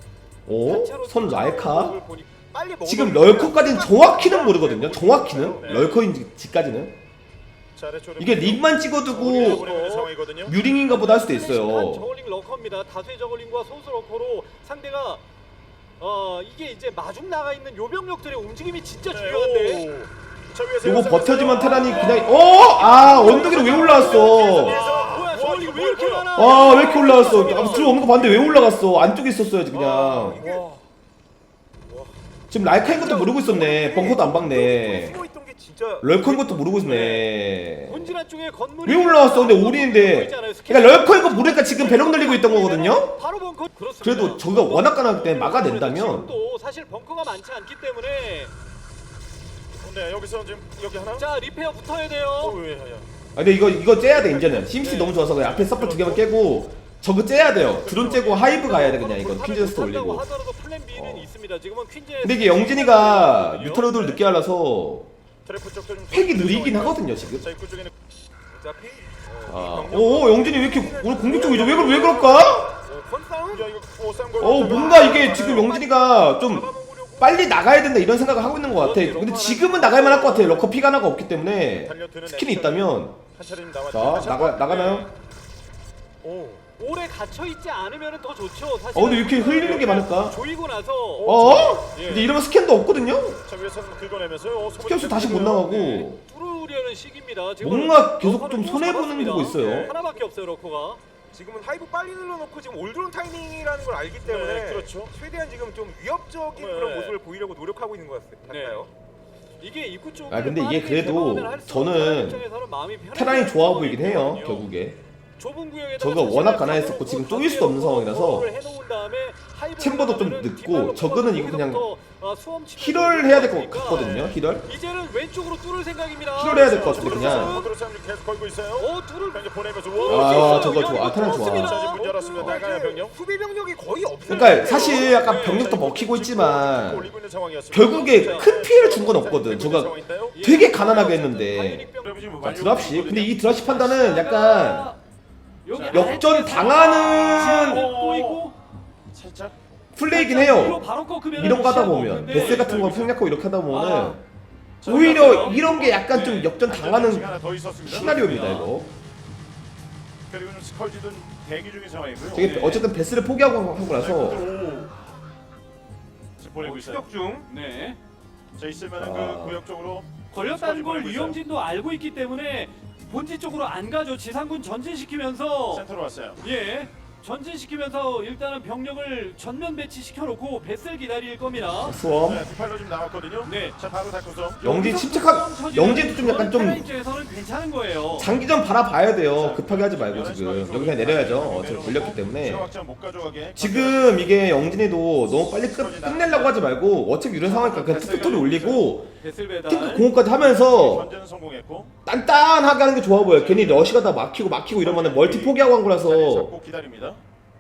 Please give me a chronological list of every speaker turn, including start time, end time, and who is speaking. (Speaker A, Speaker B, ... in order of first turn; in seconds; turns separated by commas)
Speaker A: 0.5-2.0, Speaker B: 0.6-2.3, Speaker C: 2.4-5.8, Speaker A: 2.9-7.0, Speaker D: 4.1-6.0, Speaker B: 5.7-6.1, Speaker D: 7.8-10.6, Speaker A: 8.2-9.7, Speaker B: 9.1-10.1, Speaker A: 10.4-12.1, Speaker B: 10.8-15.2, Speaker B: 16.0-19.9, Speaker D: 19.1-28.7, Speaker A: 20.8-24.8, Speaker B: 21.7-28.0, Speaker C: 22.0-22.5, Speaker A: 26.4-30.4, Speaker C: 29.7-30.7, Speaker D: 30.4-30.7, Speaker C: 31.9-32.1, Speaker A: 32.5-35.2, Speaker C: 32.9-36.2, Speaker A: 36.0-38.2, Speaker B: 36.2-37.3, Speaker B: 37.8-48.5, Speaker A: 38.9-43.2, Speaker A: 44.0-46.3, Speaker D: 49.8-51.3, Speaker B: 51.1-52.6, Speaker D: 52.4-53.1, Speaker A: 53.4-60.3, Speaker D: 54.0-56.3, Speaker D: 57.5-58.5, Speaker B: 58.1-64.0, Speaker A: 61.0-61.3, Speaker A: 62.2-65.1, Speaker D: 65.4-67.9, Speaker A: 66.1-67.5, Speaker C: 68.5-73.7, Speaker A: 69.5-72.7, Speaker D: 71.2-72.7, Speaker D: 73.5-75.8, Speaker A: 74.4-76.7, Speaker C: 74.4-77.5, Speaker A: 77.2-83.2, Speaker B: 78.8-80.6, Speaker D: 81.8-84.9, Speaker A: 83.9-85.1, Speaker B: 84.7-85.1, Speaker D: 86.2-86.7, Speaker B: 86.7-92.3, Speaker A: 89.0-90.4, Speaker D: 91.2-92.0, Speaker A: 91.2-93.4, Speaker D: 93.5-95.8, Speaker A: 94.8-96.2, Speaker B: 95.7-101.0, Speaker A: 97.6-100.0, Speaker D: 99.5-100.0, Speaker C: 101.3-108.9, Speaker D: 104.2-105.1, Speaker D: 106.5-107.2, Speaker B: 108.5-108.9, Speaker B: 109.6-114.7, Speaker A: 110.3-112.4, Speaker A: 113.2-115.0, Speaker B: 115.4-127.7, Speaker A: 116.0-118.5, Speaker A: 119.8-121.9, Speaker A: 122.8-124.7, Speaker A: 126.4-127.6, Speaker D: 126.5-133.2, Speaker B: 128.8-132.2, Speaker A: 130.1-131.8, Speaker C: 132.0-135.2, Speaker A: 134.3-137.1, Speaker D: 134.4-140.4, Speaker B: 134.6-135.7, Speaker A: 137.7-141.9, Speaker B: 138.1-138.5, Speaker B: 140.3-145.0, Speaker D: 142.0-143.4, Speaker A: 142.4-144.9, Speaker B: 145.7-148.6, Speaker D: 145.7-146.4, Speaker A: 145.9-147.9, Speaker C: 146.4-147.0, Speaker D: 147.3-148.5, Speaker D: 149.1-149.6, Speaker A: 149.9-154.2, Speaker B: 150.1-152.7, Speaker D: 152.2-153.2, Speaker B: 153.7-154.2, Speaker D: 154.8-158.6, Speaker B: 154.8-156.6, Speaker A: 154.8-158.9, Speaker B: 158.2-158.7, Speaker D: 160.3-162.6, Speaker A: 162.3-164.5, Speaker B: 162.4-162.9, Speaker D: 163.8-164.9, Speaker D: 166.4-167.1, Speaker B: 166.6-168.0, Speaker D: 168.6-171.4, Speaker A: 169.0-169.6, Speaker B: 170.2-175.9, Speaker D: 175.7-176.4, Speaker B: 176.4-182.0, Speaker A: 181.8-182.5, Speaker D: 182.2-184.7, Speaker B: 183.4-183.8, Speaker B: 184.6-188.3, Speaker A: 184.6-186.9, Speaker A: 188.1-192.7, Speaker D: 189.3-194.5, Speaker A: 193.6-199.2, Speaker D: 195.5-196.7, Speaker D: 197.4-198.9, Speaker B: 197.7-198.3, Speaker B: 199.2-200.1, Speaker A: 199.7-201.1, Speaker D: 200.2-201.9, Speaker A: 202.1-206.6, Speaker D: 203.2-204.1, Speaker D: 204.7-207.2